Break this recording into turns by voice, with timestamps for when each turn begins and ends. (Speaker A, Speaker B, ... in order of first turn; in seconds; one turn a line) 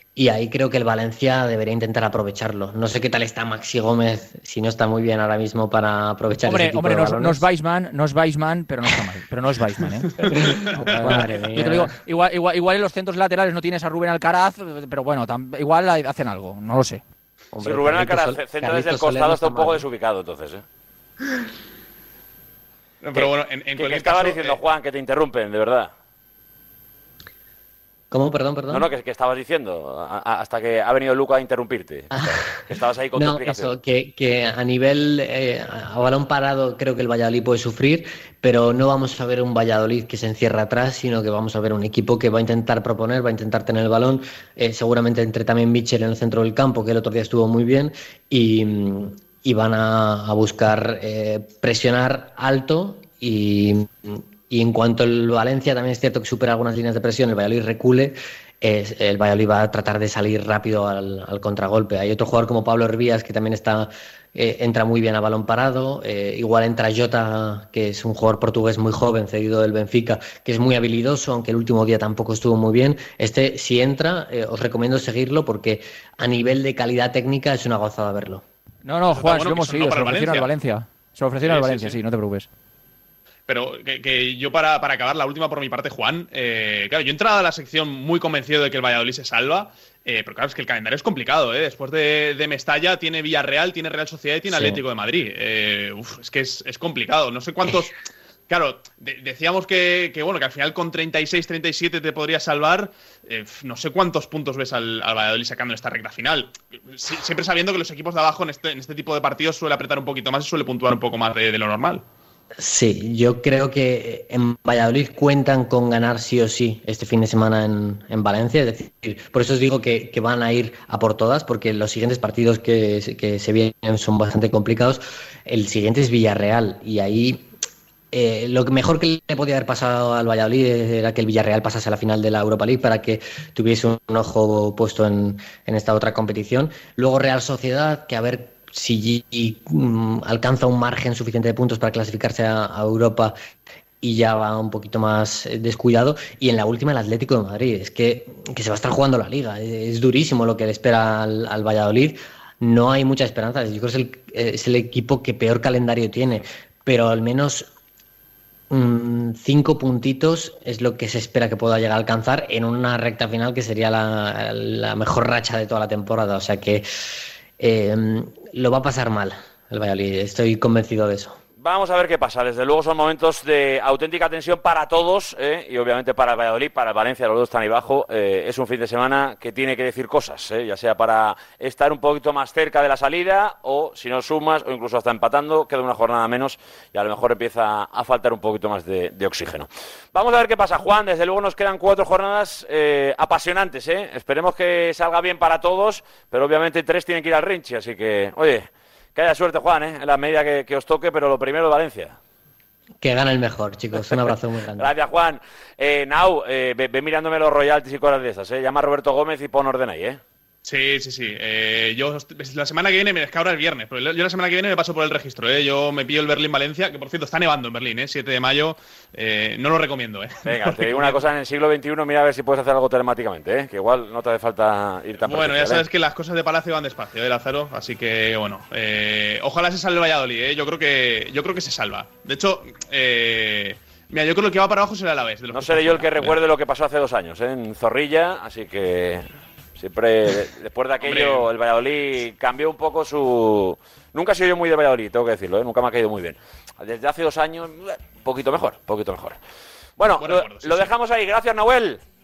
Speaker A: 0.1-7.5
Speaker B: 6.4-17.0
Speaker A: 10.2-11.9
Speaker C: 10.2-11.2
Speaker A: 17.5-19.9
Speaker D: 17.6-20.6
Speaker C: 23.0-24.6
Speaker D: 23.1-25.9
Speaker A: 28.1-28.9
Speaker D: 28.7-33.7
Speaker A: 32.1-78.4
Speaker B: 78.8-82.5
Speaker C: 79.1-80.5
Speaker C: 81.4-82.0
Speaker C: 83.5-98.0
Speaker A: 94.5-94.8
Speaker C: 98.5-112.0
Speaker A: 112.6-127.4
Speaker A: 128.1-143.3
Speaker A: 144.0-157.7
Speaker A: 158.7-166.8
Speaker A: 167.6-171.4
Speaker D: 171.6-202.2
Speaker A: 203.0-204.9
Speaker D: 204.8-210.2
Speaker C: 210.6-221.2
Speaker D: 220.4-225.8
Speaker C: 225.2-236.4
Speaker D: 235.5-239.3
Speaker D: 239.8-249.4
Speaker C: 241.0-241.5
Speaker D: 250.0-252.0
Speaker C: 250.2-250.9